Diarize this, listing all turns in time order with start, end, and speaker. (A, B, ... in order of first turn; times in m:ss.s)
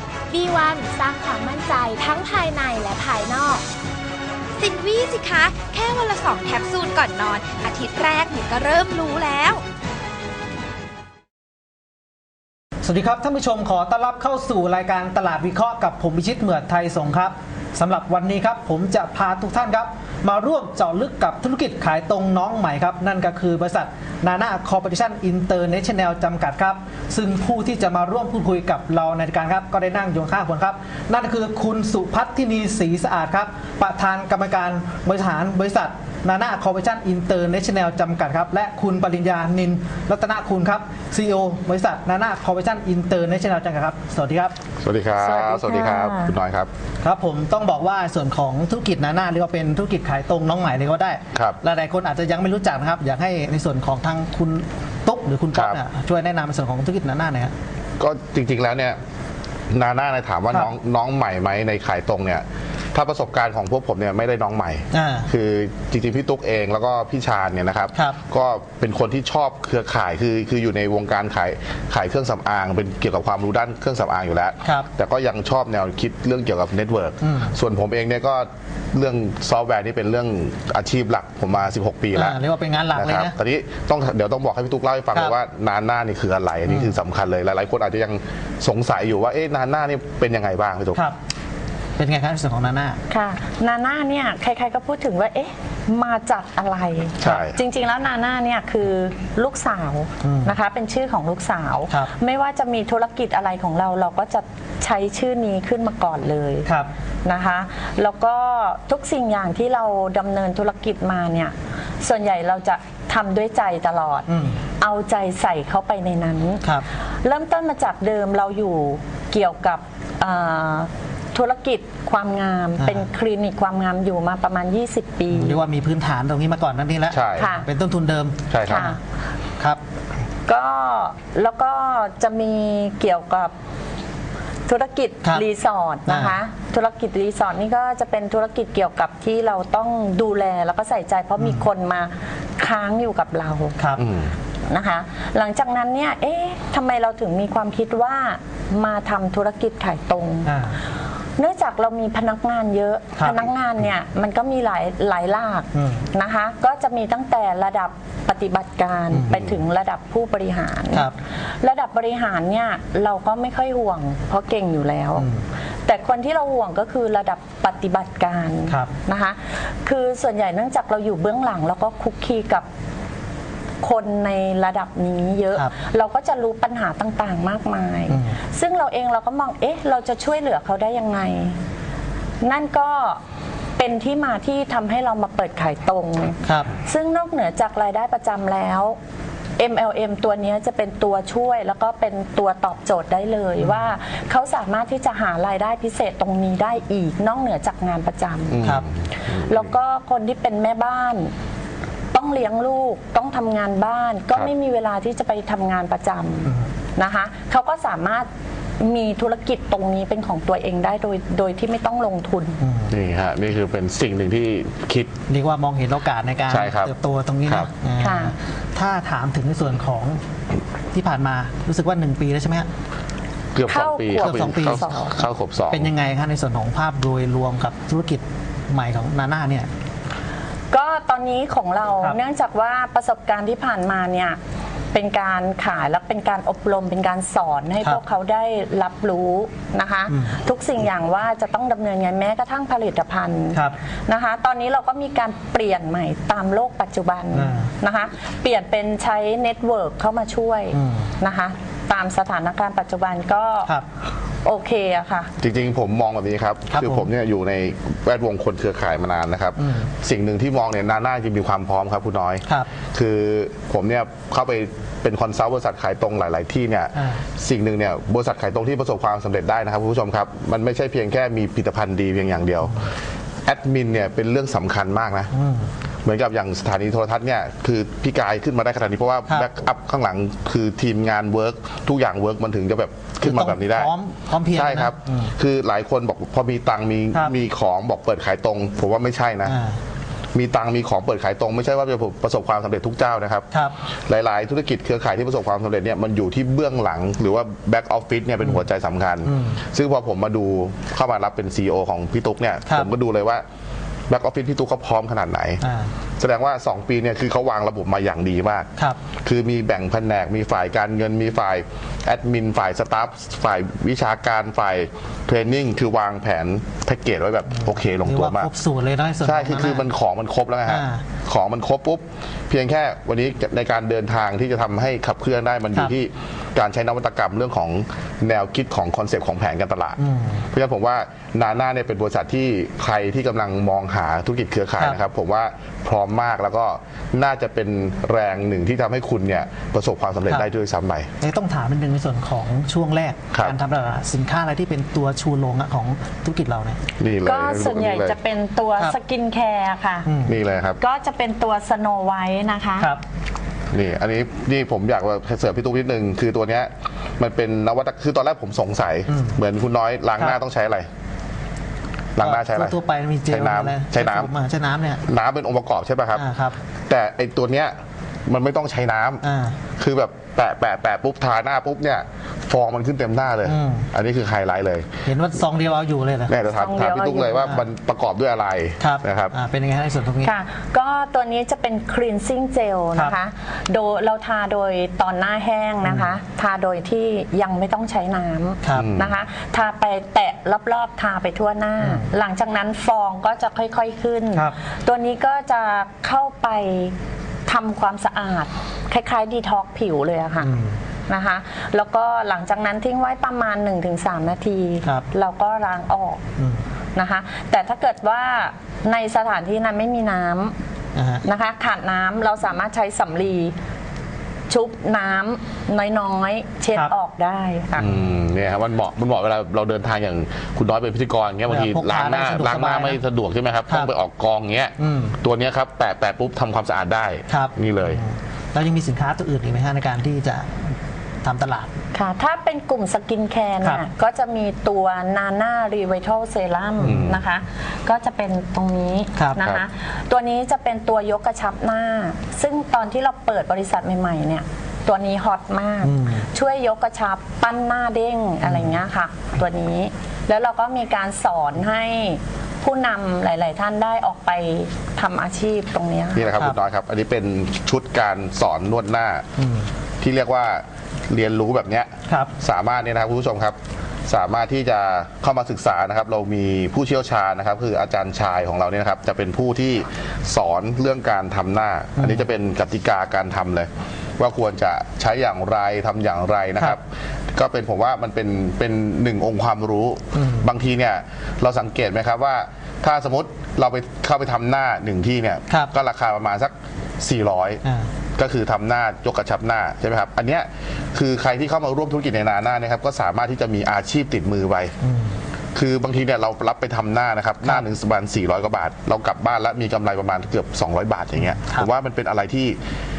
0:00.3-0:03.6 A
0:04.6-0:09.6 B
0:12.8-0:44.5 C
0:44.8-0:46.7 D
0:45.2-0:46.3 E
0:47.0-0:57.5 C
0:51.3-0:51.6 D
0:55.5-0:55.8 D
0:58.0-0:59.0 D
0:59.7-1:22.4 D
1:04.9-1:05.3 C
1:17.2-1:17.5 C
1:22.1-1:23.3 C
1:22.9-1:31.0 D
1:26.7-1:27.0 C
1:32.0-1:33.0 C
1:33.1-1:46.7 E
1:37.2-1:37.6 D
1:40.2-1:40.6 C
1:47.2-1:54.3 E
1:54.3-1:54.6 C
1:54.8-1:56.6 E
1:57.2-2:05.6 E
2:02.8-2:03.1 C
2:05.3-2:09.0 C
2:07.1-2:07.5 D
2:07.4-2:07.7 E
2:08.5-2:08.9 D
2:08.7-2:09.0 E
2:10.4-2:13.5 E
2:14.7-2:23.8 E
2:16.0-2:16.4 C
2:21.4-2:21.6 C
2:23.8-2:24.0 C
2:24.0-2:24.3 D
2:24.7-2:30.5 E
2:30.4-2:30.8 C
2:31.4-2:45.3 E
2:33.2-2:33.5 C
2:35.7-2:36.1 C
2:39.1-2:39.5 C
2:45.2-2:45.4 C
2:45.8-2:52.7 E
2:48.7-2:48.9 C
2:53.8-3:01.6 E
2:58.1-2:58.4 C
3:02.4-3:03.2 E
3:03.8-3:09.0 E
3:06.4-3:06.7 C
3:09.6-3:18.6 E
3:18.5-3:19.7 D
3:19.4-3:21.3 E
3:22.1-3:28.3 E
3:26.4-3:26.7 C
3:28.8-3:32.6 E
3:32.6-3:32.9 C
3:32.9-3:35.1 D
3:35.3-3:40.2 C
3:36.5-3:36.9 D
3:38.0-3:38.3 E
3:40.9-3:42.7 C
3:43.5-3:45.9 D
3:43.7-3:45.2 E
3:44.2-3:44.9 C
3:45.7-3:49.7 C
3:50.7-3:54.4 E
3:54.9-4:13.7 E
4:00.1-4:00.4 C
4:07.3-4:07.7 C
4:10.7-4:11.1 C
4:14.4-4:15.3 E
4:15.4-4:32.9 D
4:16.7-4:17.1 C
4:19.6-4:19.9 C
4:26.9-4:27.2 C
4:33.4-4:35.3 D
4:35.3-4:35.7 C
4:36.0-4:43.9 D
4:43.2-4:45.3 C
4:44.4-4:49.6 D
4:49.4-4:49.8 C
4:50.3-4:53.5 D
4:53.5-4:53.8 C
4:54.0-5:03.4 D
4:59.2-4:59.6 C
5:04.1-5:05.6 D
5:05.6-5:05.9 C
5:06.2-5:08.7 D
5:09.2-5:18.5 D
5:17.5-5:19.9 C
5:19.2-5:30.0 D
5:20.7-5:21.0 C
5:30.0-5:30.4 C
5:30.5-5:41.1 D
5:41.2-5:46.8 C
5:47.0-5:48.2 D
5:47.2-5:50.1 E
5:50.0-5:50.4 C
5:50.3-5:50.8 D
5:50.8-5:52.9 E
5:53.7-6:00.9 D
5:59.1-5:59.4 C
6:02.2-6:04.3 D
6:02.2-6:05.0 C
6:05.0-6:06.2 D
6:06.1-6:06.6 C
6:06.9-6:07.7 D
6:08.2-6:09.2 D
6:09.2-6:09.6 C
6:09.8-6:14.9 D
6:13.4-6:13.9 C
6:15.0-6:16.3 C
6:16.3-6:19.3 D
6:16.5-6:17.5 E
6:17.4-6:17.6 C
6:18.8-6:20.3 C
6:20.2-6:36.9 E
6:25.8-6:26.1 C
6:28.6-6:28.9 C
6:28.7-6:29.1 D
6:31.8-6:32.1 C
6:37.5-6:40.5 E
6:40.4-6:40.8 C
6:41.1-6:46.2 E
6:46.4-6:46.6 C
6:46.9-6:50.6 E
6:50.9-6:51.2 C
6:51.2-6:53.6 E
6:54.5-6:57.9 E
6:57.8-7:08.0 D
7:01.5-7:03.0 C
7:04.8-7:05.2 C
7:07.3-7:11.7 C
7:11.9-7:36.3 E
7:16.8-7:17.1 C
7:16.8-7:17.2 D
7:25.8-7:26.2 C
7:28.4-7:28.8 C
7:36.1-7:39.2 D
7:36.3-7:36.6 C
7:39.4-7:39.7 C
7:40.0-7:56.8 D
7:52.0-7:52.2 C
7:57.3-8:07.6 D
8:00.1-8:00.5 C
8:07.6-8:07.9 C
8:08.2-8:14.7 D
8:14.8-8:15.2 C
8:15.5-8:22.6 D
8:21.2-8:21.7 C